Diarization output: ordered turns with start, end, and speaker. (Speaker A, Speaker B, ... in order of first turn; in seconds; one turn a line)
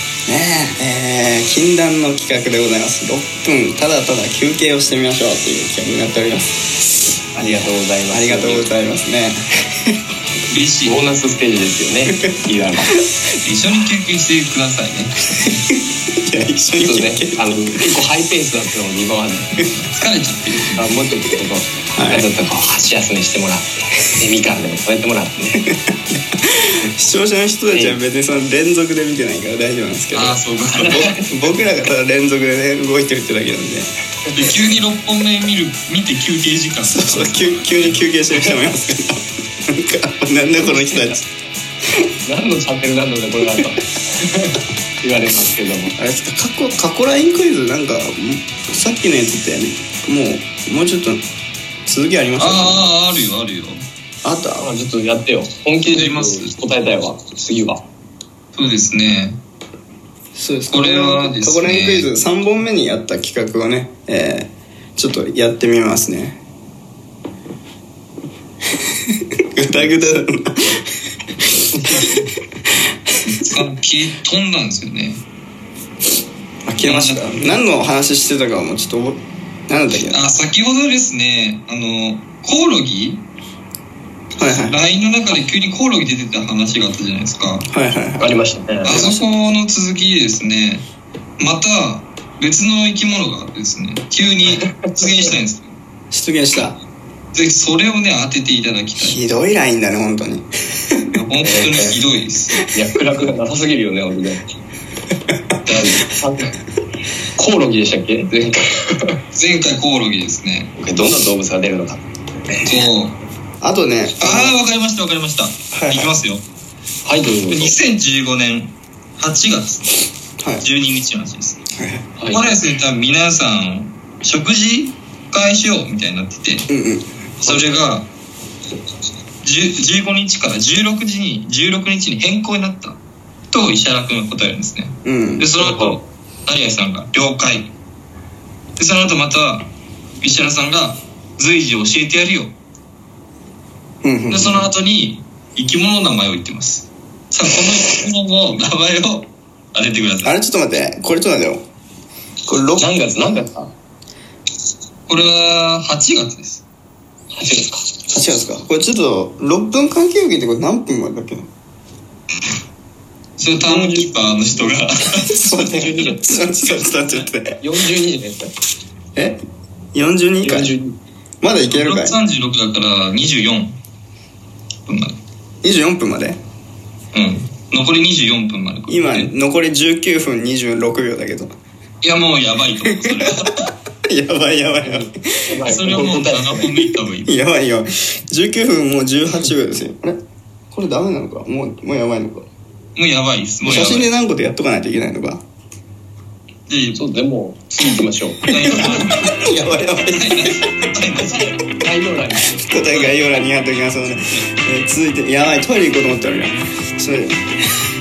Speaker A: 0.3-6.5
Speaker B: 7.3-8.7
Speaker A: 7.4-9.9
Speaker C: 10.5-11.0
Speaker B: 10.8-12.9
Speaker C: 13.4-15.7
Speaker A: 15.7-18.0
Speaker B: 16.8-19.5
Speaker C: 19.8-20.9
Speaker B: 20.8-25.6
Speaker A: 21.9-22.3
Speaker A: 25.6-33.9
Speaker B: 27.7-28.0
Speaker C: 30.1-31.1
Speaker B: 30.8-31.2
Speaker C: 34.3-38.5
Speaker A: 36.8-41.2
Speaker B: 42.2-46.0
Speaker A: 46.0-51.2
Speaker A: 51.9-52.9
Speaker C: 52.4-53.8
Speaker A: 54.2-54.7
Speaker B: 54.6-57.8
Speaker C: 55.9-56.6
Speaker C: 58.5-59.4
Speaker A: 60.3-66.4
Speaker C: 60.7-62.1
Speaker A: 69.5-71.0
Speaker A: 71.5-72.2
Speaker C: 73.2-75.2
Speaker A: 76.7-80.2
Speaker C: 76.8-77.6
Speaker C: 80.1-83.2
Speaker A: 84.4-84.8
Speaker C: 84.4-87.7
Speaker A: 87.7-88.3
Speaker B: 88.2-89.0
Speaker C: 88.8-90.8
Speaker A: 88.8-89.2
Speaker C: 91.4-95.8
Speaker B: 94.6-94.9
Speaker A: 96.1-96.8
Speaker C: 97.3-99.4
Speaker A: 99.0-101.1
Speaker C: 101.1-102.6
Speaker B: 101.4-102.0
Speaker B: 102.7-104.4
Speaker B: 105.7-106.6
Speaker B: 107.3-109.2
Speaker C: 109.3-110.7
Speaker B: 110.8-112.8
Speaker C: 112.6-113.2
Speaker A: 113.6-114.5
Speaker C: 114.2-116.4
Speaker A: 115.7-116.1
Speaker B: 117.0-117.8
Speaker C: 117.5-119.9
Speaker C: 120.6-121.6
Speaker A: 121.8-122.1
Speaker B: 122.2-122.5
Speaker C: 122.3-126.7
Speaker A: 126.7-127.0
Speaker C: 127.4-128.1
Speaker C: 129.4-133.0
Speaker C: 133.5-137.7
Speaker A: 135.0-135.5
Speaker B: 135.6-136.0
Speaker C: 138.8-139.7
Speaker C: 140.2-142.5
Speaker A: 144.0-144.6
Speaker C: 144.3-150.3
Speaker A: 150.2-151.6
Speaker A: 152.5-152.8
Speaker B: 152.8-153.7
Speaker C: 155.1-156.6
Speaker B: 157.3-157.9
Speaker A: 158.1-161.5
Speaker C: 163.4-165.8
Speaker B: 163.6-164.6
Speaker A: 165.3-167.6
Speaker B: 165.6-166.2
Speaker C: 166.4-167.2
Speaker B: 167.6-168.5
Speaker A: 169.9-170.7
Speaker B: 170.4-170.9
Speaker A: 171.4-172.2
Speaker C: 171.7-173.8
Speaker C: 174.8-175.2
Speaker A: 175.6-176.4
Speaker C: 177.1-179.3
Speaker A: 178.9-181.5
Speaker C: 182.0-183.7
Speaker A: 182.9-183.3
Speaker A: 184.0-185.5
Speaker B: 184.8-186.7
Speaker C: 185.7-187.3
Speaker A: 187.2-190.2
Speaker A: 190.7-192.4
Speaker C: 192.9-194.1
Speaker A: 193.6-195.4
Speaker C: 196.7-197.0
Speaker B: 196.9-199.0
Speaker A: 198.4-200.6
Speaker C: 198.4-199.5
Speaker C: 200.1-201.5
Speaker B: 201.4-202.6
Speaker A: 202.5-207.4
Speaker C: 202.8-203.2